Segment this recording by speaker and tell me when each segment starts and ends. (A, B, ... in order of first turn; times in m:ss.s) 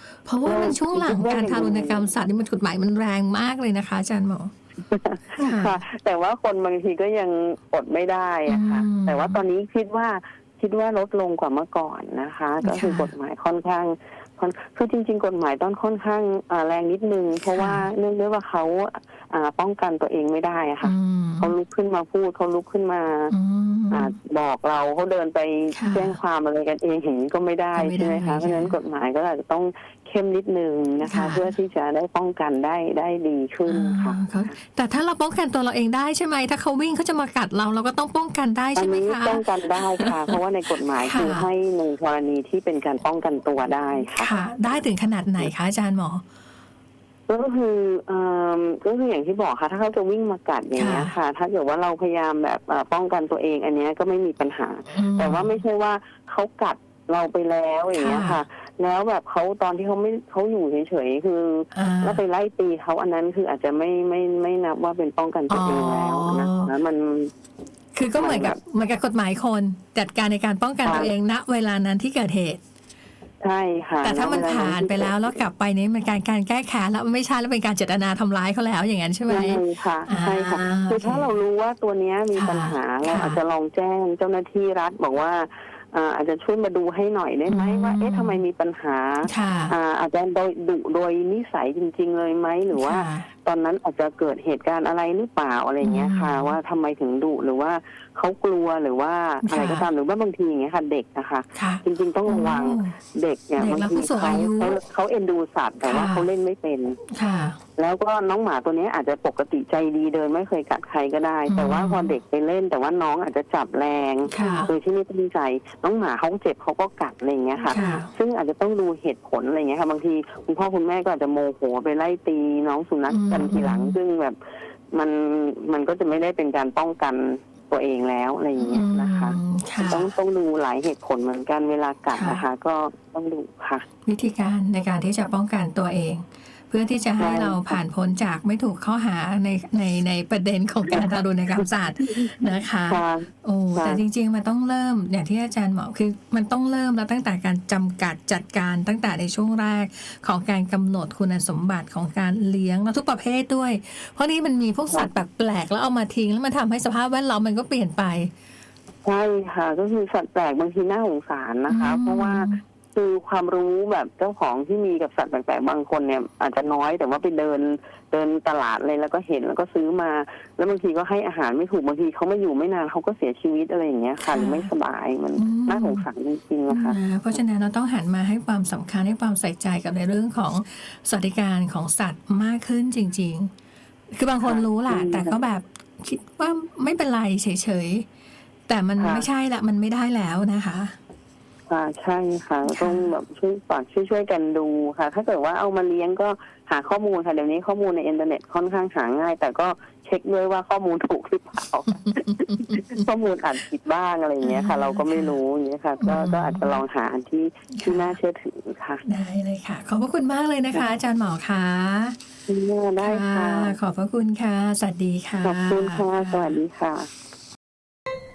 0:00.2-0:04.5 A
0:00.4-0:02.0 B
0:04.8-0:23.3 B
0:05.4-0:05.8 A
0:08.5-0:09.4 A
0:12.6-0:13.1 A
0:17.4-0:17.9 A
0:20.8-0:21.5 A
0:23.3-0:24.1 A
0:23.9-0:34.6 B
0:25.7-0:26.2 A
0:27.7-0:28.7 A
0:31.0-0:31.5 A
0:33.7-0:40.3 A
0:38.7-0:44.3 B
0:41.0-0:41.5 A
0:44.2-0:46.2 A
0:47.3-1:07.3 B
0:50.8-0:51.1 A
0:54.9-0:55.6 A
0:57.9-0:58.4 A
1:01.7-1:02.2 A
1:05.5-1:06.7 A
1:07.9-1:12.6 A
1:08.1-1:08.6 B
1:10.8-1:11.1 B
1:13.4-1:15.4 B
1:14.0-1:21.3 A
1:19.3-1:47.0 B
1:22.4-1:23.4 A
1:27.5-1:28.4 A
1:29.2-1:29.7 A
1:32.7-1:33.3 A
1:35.8-1:36.6 A
1:39.4-1:39.8 A
1:41.5-1:43.0 A
1:43.6-1:44.8 A
1:45.8-1:46.2 A
1:47.1-1:47.6 A
1:47.8-2:04.4 B
1:51.5-1:52.1 A
1:54.3-1:54.7 A
1:57.6-1:58.1 A
2:03.1-2:04.0 A
2:04.9-2:13.8 B
2:08.6-2:10.1 A
2:12.1-2:12.4 A
2:14.0-2:38.3 A
2:17.2-2:17.8 B
2:20.9-2:24.0 B
2:39.0-2:57.0 B
2:41.7-2:42.6 A
2:54.2-2:54.7 A
2:55.4-2:56.0 A
2:56.7-3:03.5 A
3:04.1-3:08.1 A
3:04.4-3:05.4 B
3:08.7-3:11.0 A
3:09.0-3:09.3 B
3:11.7-3:29.0 B
3:12.6-3:13.1 A
3:22.1-3:23.0 A
3:24.4-3:25.4 A
3:26.0-3:26.7 A
3:27.7-3:28.2 A
3:29.0-3:32.2 A
3:32.5-3:33.8 B
3:33.0-3:36.6 A
3:35.4-3:37.1 B